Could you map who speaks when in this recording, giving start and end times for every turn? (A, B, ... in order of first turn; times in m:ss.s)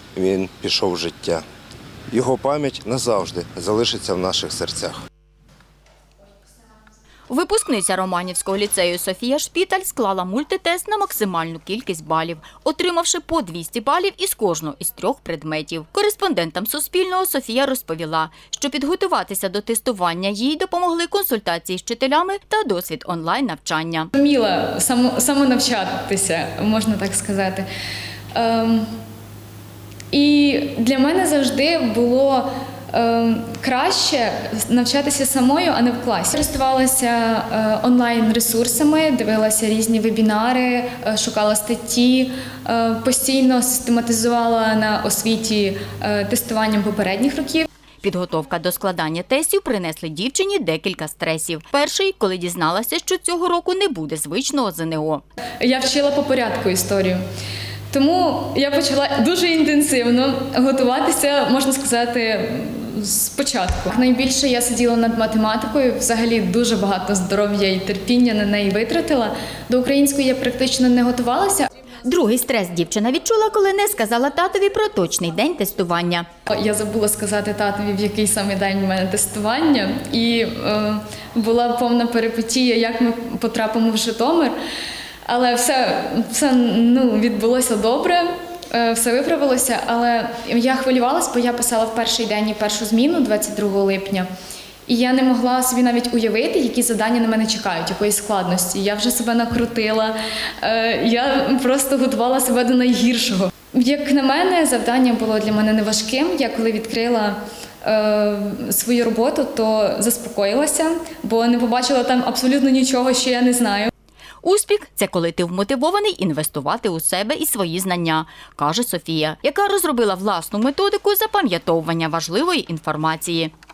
0:00.2-0:01.4 A
0:02.1-0:05.0 A
0:07.3-0:24.1 B
0:24.1-0:27.7 C
0:28.4-0:28.9 C
0:30.1-0:47.7 C
0:48.0-0:55.2 B
0:55.6-0:57.2 C
0:57.9-1:11.7 C
1:12.0-1:16.3 B
1:16.5-1:24.6 C
1:25.3-1:34.3 C
1:34.9-1:53.9 C
1:54.4-2:03.5 B